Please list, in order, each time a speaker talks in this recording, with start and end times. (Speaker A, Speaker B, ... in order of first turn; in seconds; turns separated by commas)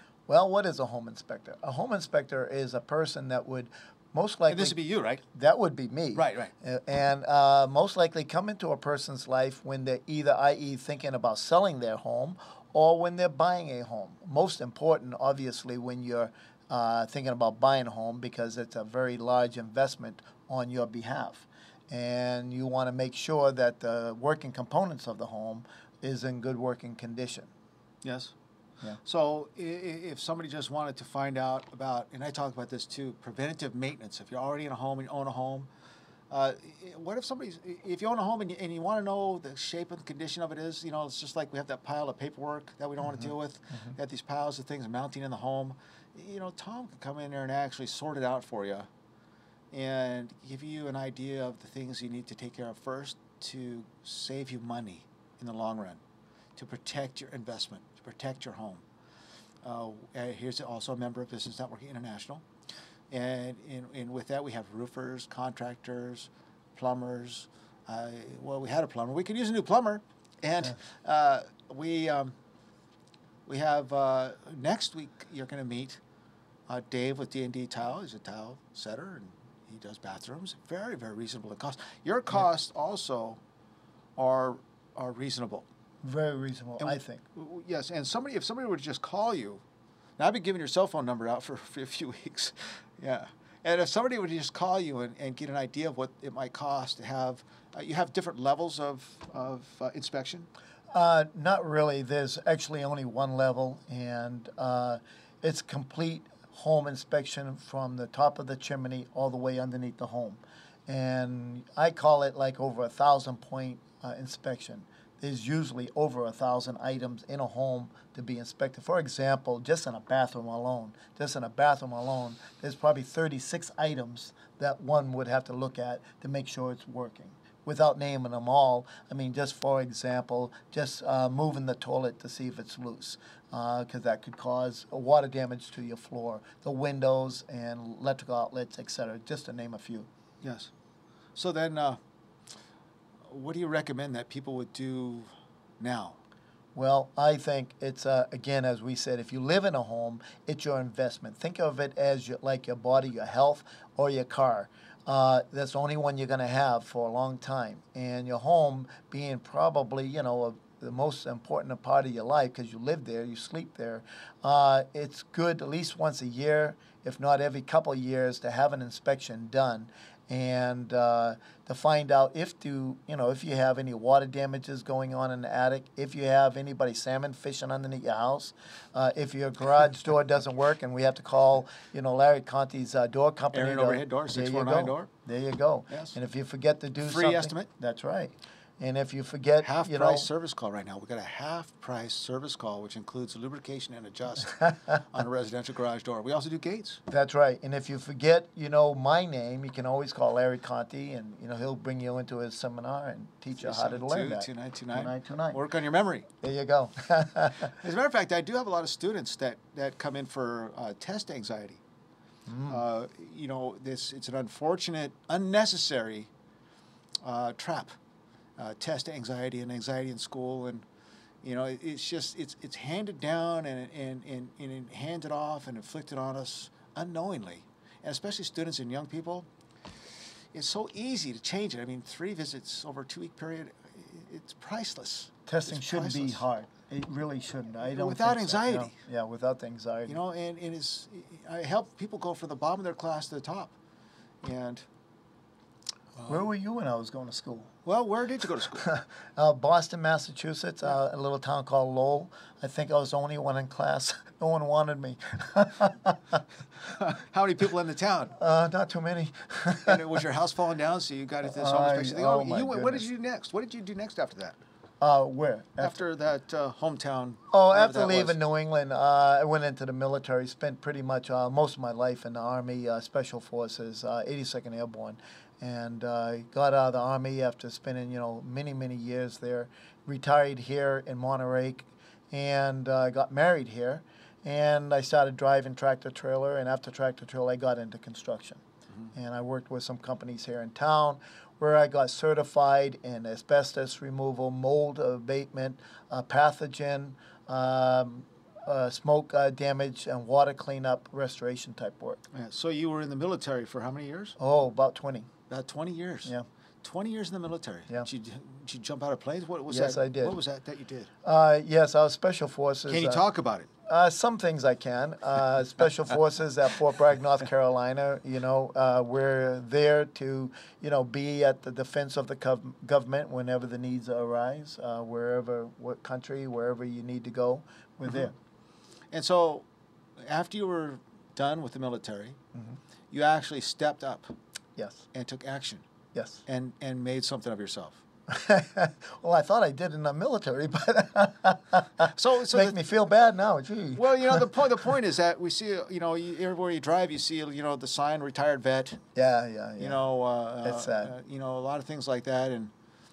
Speaker A: 0.3-4.7, Speaker B: 4.5-5.2, Speaker A: 5.3-27.5, Speaker B: 6.1-6.5, Speaker B: 28.0-28.3, Speaker B: 29.0-35.7, Speaker B: 36.3-48.9, Speaker A: 43.0-43.9, Speaker B: 49.7-56.0, Speaker B: 56.5-58.8, Speaker B: 59.6-62.5, Speaker B: 63.1-72.4, Speaker B: 73.5-76.0, Speaker B: 76.7-83.4, Speaker B: 84.2-85.7, Speaker A: 86.0-87.2, Speaker B: 86.8-89.6, Speaker B: 90.2-100.5, Speaker A: 100.9-140.1, Speaker B: 140.4-140.7, Speaker B: 141.3-142.0, Speaker B: 143.2-146.2, Speaker A: 146.7-190.3, Speaker B: 183.5-185.1, Speaker B: 185.9-186.2, Speaker B: 187.0-187.7, Speaker B: 189.6-197.0, Speaker A: 194.6-195.0, Speaker A: 197.1-205.6, Speaker B: 203.6-206.3, Speaker A: 206.4-207.7, Speaker B: 207.7-211.8, Speaker A: 212.5-212.8, Speaker B: 212.7-216.3, Speaker B: 217.2-218.0, Speaker B: 218.6-220.9, Speaker B: 221.4-229.5, Speaker B: 230.0-236.4, Speaker A: 235.5-240.2, Speaker B: 237.8-238.9, Speaker B: 240.1-243.7, Speaker B: 244.4-244.9, Speaker B: 246.1-246.4, Speaker A: 246.3-247.7, Speaker B: 247.8-248.9, Speaker A: 248.8-256.4, Speaker B: 256.9-258.4, Speaker A: 258.4-260.0, Speaker B: 259.8-264.6, Speaker A: 261.4-263.1, Speaker A: 265.0-265.9, Speaker B: 265.8-268.4, Speaker A: 267.5-288.6, Speaker A: 289.1-302.2, Speaker B: 302.3-304.4, Speaker A: 304.4-305.3, Speaker B: 305.5-311.1, Speaker A: 309.7-310.4, Speaker A: 311.2-313.2, Speaker B: 312.9-313.7, Speaker A: 313.9-328.3, Speaker B: 328.1-328.3, Speaker B: 329.1-329.6, Speaker B: 330.2-332.4, Speaker B: 333.1-334.3, Speaker A: 334.8-335.0, Speaker B: 335.1-335.8, Speaker A: 336.1-336.4, Speaker B: 336.5-338.0, Speaker A: 338.3-344.5, Speaker B: 342.1-342.8, Speaker B: 343.9-349.0, Speaker A: 349.1-350.0, Speaker B: 349.8-352.7, Speaker A: 350.6-351.1